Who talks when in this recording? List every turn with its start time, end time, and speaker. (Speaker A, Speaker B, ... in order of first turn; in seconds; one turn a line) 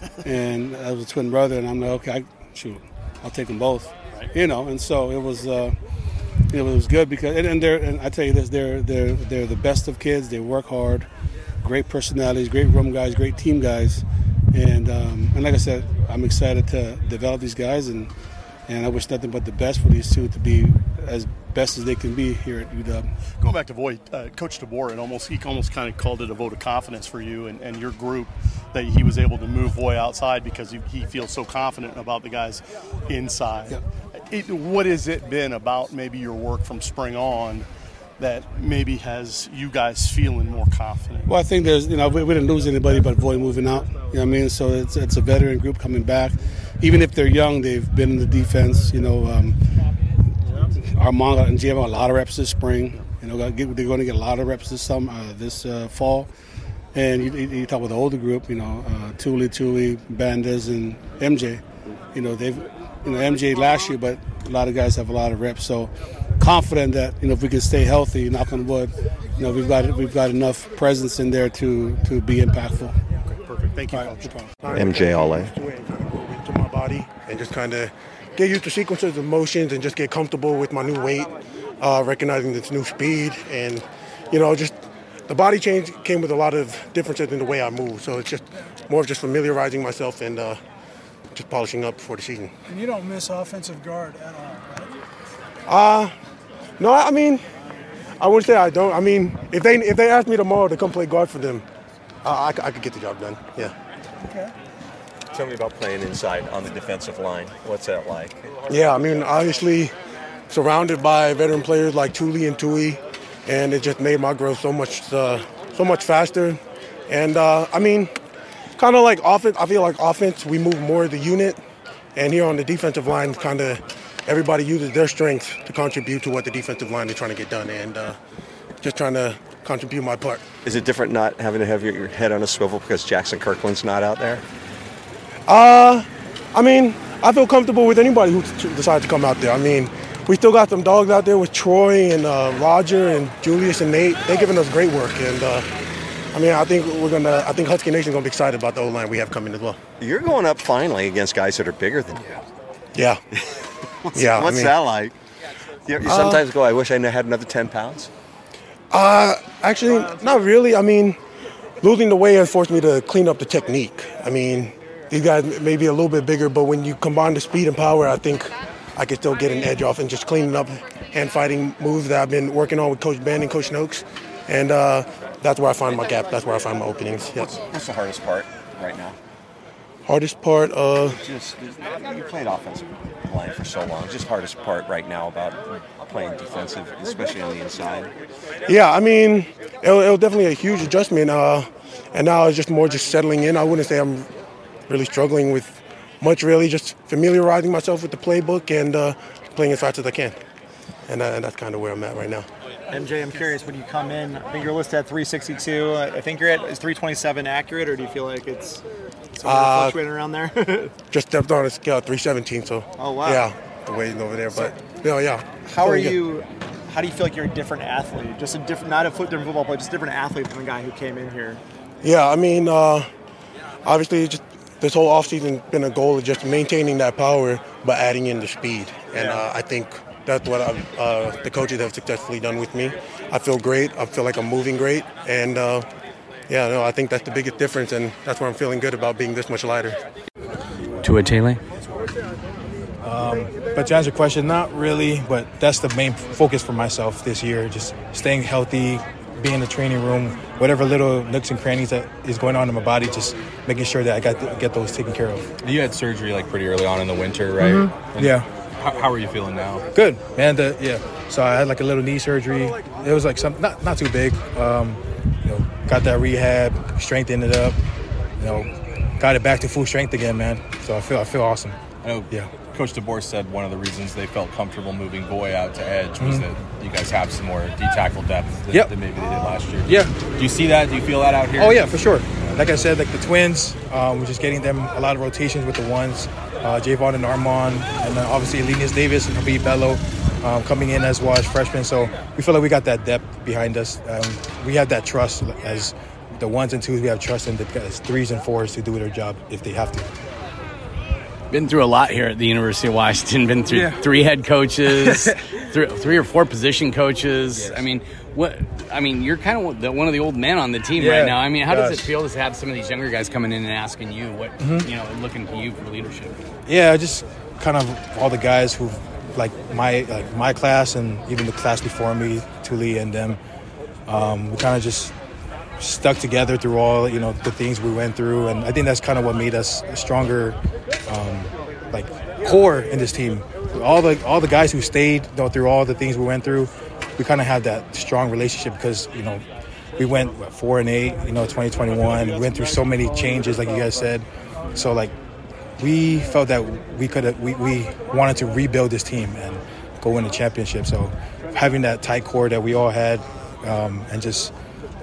Speaker A: 0.2-5.8
Speaker A: 6.5-11.1
Speaker A: 11.6-18.1
Speaker A: 18.7-23.1
Speaker B: 23.4-37.7
Speaker B: 38.2-41.3
Speaker A: 41.3-49.6
Speaker A: 50.9-56.3
Speaker A: 56.9-61.6
Speaker A: 62.1-73.0
Speaker B: 73.3-74.3
Speaker A: 73.9-74.6
Speaker C: 74.6-84.8
Speaker D: 74.7-75.5
Speaker C: 85.3-90.6
Speaker C: 91.3-92.5
Speaker E: 92.7-94.9
Speaker C: 95.7-96.1
Speaker C: 96.8-97.4
Speaker C: 98.2-101.6
Speaker C: 102.2-103.7
Speaker E: 104.2-104.5
Speaker D: 105.3-108.5
Speaker C: 108.7-109.9
Speaker C: 110.5-118.1
Speaker C: 118.8-121.6
Speaker C: 122.2-128.2
Speaker C: 128.8-130.4
Speaker D: 130.6-134.4
Speaker C: 135.5-145.7
Speaker C: 146.3-149.8
Speaker D: 150.0-152.4
Speaker C: 152.9-153.2
Speaker D: 153.3-155.1
Speaker C: 154.1-154.8
Speaker D: 155.8-158.1
Speaker C: 156.0-156.5
Speaker C: 158.9-161.2
Speaker C: 161.8-177.6
Speaker D: 177.3-179.2
Speaker C: 180.1-181.2
Speaker D: 181.1-188.1
Speaker C: 188.7-194.3
Speaker C: 194.9-200.4
Speaker C: 201.1-202.5
Speaker F: 202.9-208.8
Speaker F: 209.3-210.9
Speaker C: 209.4-210.0
Speaker C: 211.1-216.2
Speaker F: 213.0-213.5
Speaker F: 215.7-221.6
Speaker C: 222.0-223.1
Speaker C: 223.8-235.9
Speaker F: 229.1-229.4
Speaker C: 236.5-240.0
Speaker G: 241.0-241.6
Speaker H: 243.0-255.5
Speaker I: 255.6-259.9
Speaker H: 257.6-258.5
Speaker H: 259.9-267.8
Speaker H: 268.4-271.8
Speaker I: 272.0-281.8
Speaker H: 276.2-276.5
Speaker H: 278.7-278.9
Speaker H: 279.8-280.1
Speaker H: 281.5-300.1
Speaker G: 301.5-316.4
Speaker H: 303.7-304.0
Speaker H: 304.9-305.4
Speaker H: 310.9-312.1
Speaker H: 314.6-314.9
Speaker H: 316.6-323.4
Speaker H: 324.1-325.1
Speaker H: 325.8-339.4
Speaker H: 340.0-345.1
Speaker H: 345.8-354.5